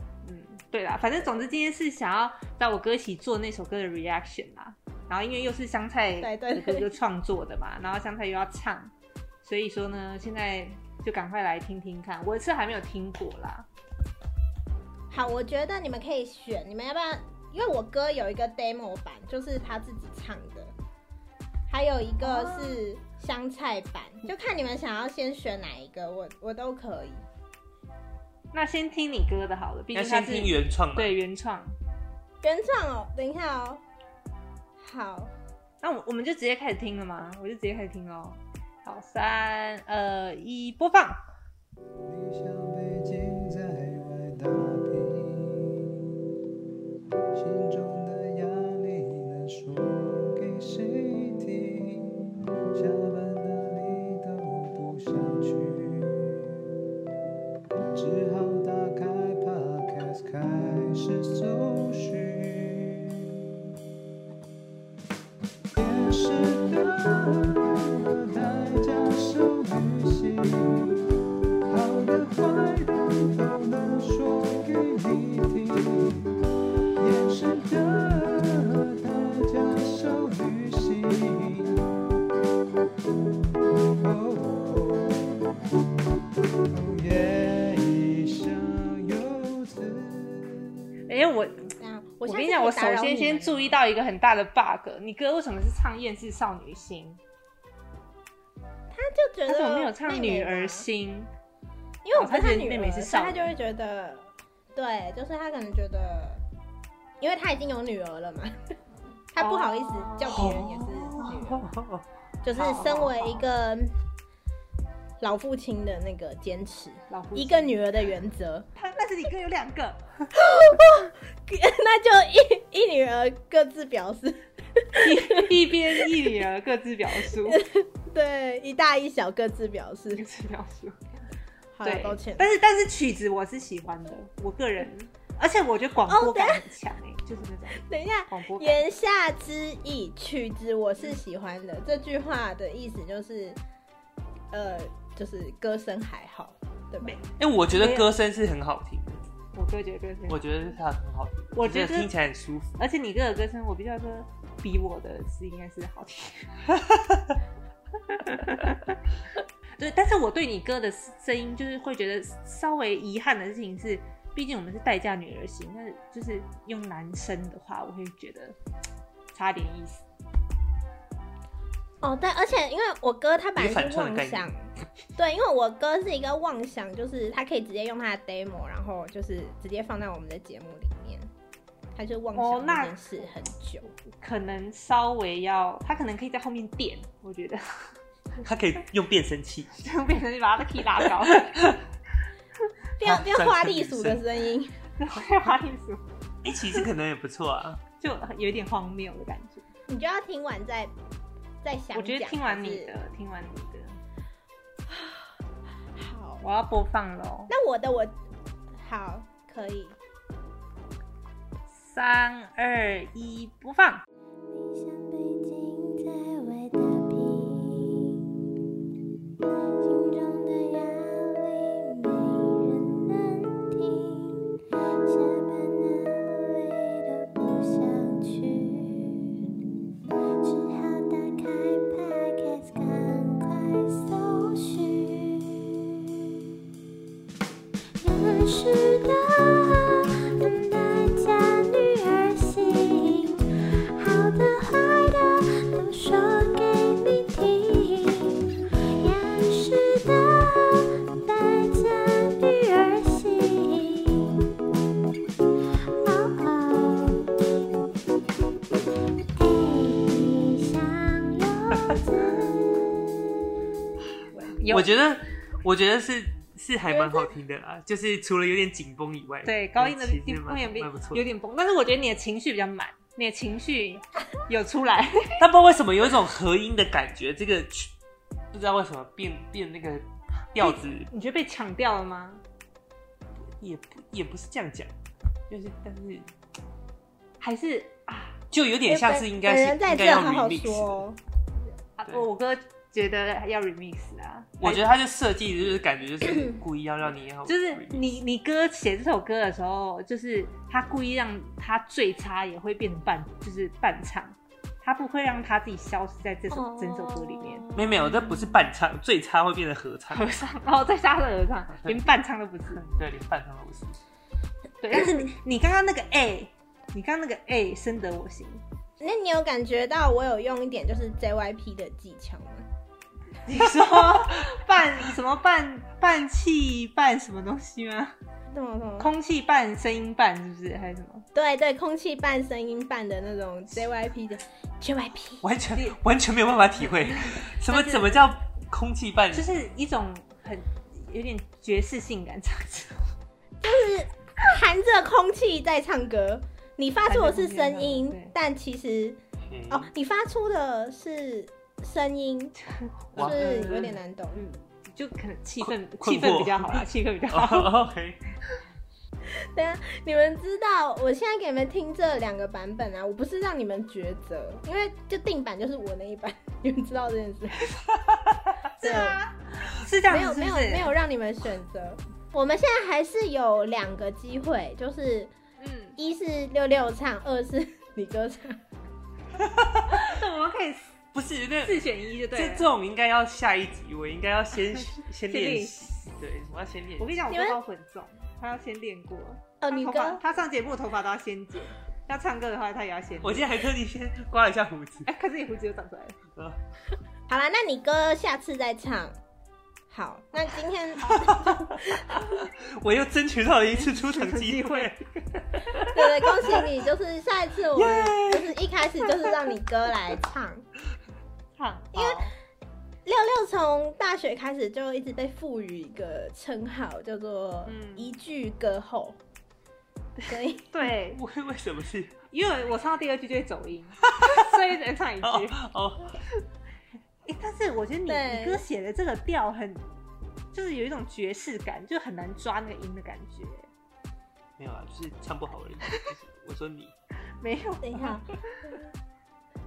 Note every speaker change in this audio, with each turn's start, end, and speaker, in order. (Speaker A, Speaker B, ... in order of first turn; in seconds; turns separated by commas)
Speaker A: 0.2-13.7, Speaker B: 6.2-6.9, Speaker B: 15.1-20.7, Speaker B: 21.7-27.2, Speaker A: 22.2-22.8, Speaker A: 28.5-31.8, Speaker C: 29.9-31.1, Speaker B: 32.4-33.8, Speaker B: 34.8-35.3, Speaker A: 35.8-41.2, Speaker D: 42.0-45.9, Speaker D: 47.3-56.6, Speaker D: 58.0-63.4, Speaker D: 65.7-71.1, Speaker D: 71.7-76.3, Speaker D: 77.0-81.8, Speaker D: 83.9-85.3, Speaker D: 86.7-90.8, Speaker A: 91.1-97.2, Speaker B: 91.8-93.8, Speaker B: 98.9-100.9, Speaker A: 99.5-101.3, Speaker B: 102.0-106.4, Speaker A: 102.2-103.5, Speaker B: 107.2-108.7, Speaker B: 109.3-111.7, Speaker A: 109.4-110.5, Speaker C: 110.2-112.0, Speaker B: 112.4-114.0, Speaker A: 112.5-113.5, Speaker B: 115.2-118.7, Speaker A: 117.1-117.8, Speaker A: 118.8-120.0, Speaker B: 120.3-126.3, Speaker A: 125.0-127.6, Speaker B: 127.3-130.2, Speaker A: 130.1-131.2, Speaker B: 131.8-132.5, Speaker A: 131.8-138.8, Speaker B: 136.1-136.7, Speaker B: 137.7-143.6, Speaker B: 144.5-147.2, Speaker A: 147.0-148.1, Speaker C: 147.4-149.2, Speaker A: 149.5-150.4, Speaker C: 150.3-152.8, Speaker A: 151.5-152.1, Speaker A: 152.8-156.5, Speaker A: 158.3-158.9, Speaker A: 159.8-168.6, Speaker A: 169.3-170.1, Speaker B: 172.0-174.6, Speaker C: 173.6-174.5, Speaker B: 175.2-181.3, Speaker B: 181.9-183.9, Speaker A: 182.3-183.3, Speaker A: 184.2-188.0, Speaker C: 188.4-189.8, Speaker A: 189.8-191.7, Speaker B: 193.0-194.8, Speaker C: 193.0-194.2, Speaker A: 195.0-196.0, Speaker C: 196.4-197.8, Speaker A: 198.0-199.7, Speaker B: 199.9-200.9, Speaker B: 201.6-202.9, Speaker A: 201.9-204.0, Speaker B: 204.9-205.3, Speaker B: 205.9-206.4, Speaker A: 206.4-207.5, Speaker B: 207.5-208.2, Speaker B: 208.7-210.0, Speaker A: 211.7-214.0, Speaker E: 214.5-218.2, Speaker E: 219.8-224.4, Speaker E: 225.0-229.6, Speaker E: 230.4-236.1, Speaker E: 238.0-248.4, Speaker E: 249.0-254.4, Speaker E: 256.0-257.7, Speaker E: 259.4-263.3, Speaker A: 264.3-264.9, Speaker C: 264.7-271.2, Speaker A: 269.4-275.4, Speaker C: 275.4-277.9, Speaker C: 278.5-281.1, Speaker A: 280.6-282.4, Speaker C: 283.4-284.9, Speaker C: 285.5-286.3, Speaker A: 287.4-288.4, Speaker C: 288.5-291.0, Speaker B: 288.9-291.2, Speaker A: 292.0-294.8, Speaker C: 294.6-298.1, Speaker A: 297.5-307.7, Speaker E: 306.6-308.3, Speaker C: 307.8-310.3, Speaker A: 310.1-312.9, Speaker C: 312.8-314.0, Speaker A: 314.8-318.6, Speaker B: 319.0-322.7, Speaker A: 323.5-328.1, Speaker B: 328.5-329.1, Speaker A: 329.0-331.3, Speaker B: 331.3-335.4, Speaker C: 335.4-339.5, Speaker A: 335.7-336.0, Speaker A: 336.8-338.2, Speaker A: 339.3-343.1, Speaker B: 343.6-352.5, Speaker A: 347.1-348.4, Speaker C: 349.5-349.9, Speaker A: 352.7-357.7, Speaker C: 353.2-353.5, Speaker B: 353.2-354.4, Speaker C: 355.6-358.2, Speaker B: 359.3-367.7, Speaker A: 368.8-370.9, Speaker B: 368.8-369.2, Speaker B: 370.1-375.3, Speaker A: 375.6-376.0, Speaker B: 376.0-378.6, Speaker C: 379.4-380.1, Speaker A: 379.9-380.9, Speaker C: 381.1-387.2, Speaker A: 381.6-382.7, Speaker A: 384.6-386.1, Speaker A: 387.0-393.5, Speaker B: 387.3-387.6, Speaker B: 389.6-390.2, Speaker C: 393.2-395.1, Speaker A: 395.1-396.2, Speaker B: 397.3-399.2, Speaker B: 399.9-402.1, Speaker C: 401.1-405.0, Speaker A: 403.7-405.8, Speaker C: 405.7-406.6, Speaker B: 405.9-410.7, Speaker C: 407.8-408.6, Speaker A: 411.6-412.3, Speaker B: 411.9-412.2, Speaker B: 413.1-419.2, Speaker A: 417.7-418.1, Speaker B: 420.3-420.7, Speaker A: 420.7-421.2, Speaker C: 421.1-422.2, Speaker A: 422.3-425.6, Speaker C: 424.1-424.4, Speaker C: 425.2-426.2, Speaker A: 427.2-429.8, Speaker B: 428.1-428.6, Speaker A: 430.5-433.7, Speaker C: 434.6-436.9, Speaker A: 437.4-438.3, Speaker B: 437.8-438.3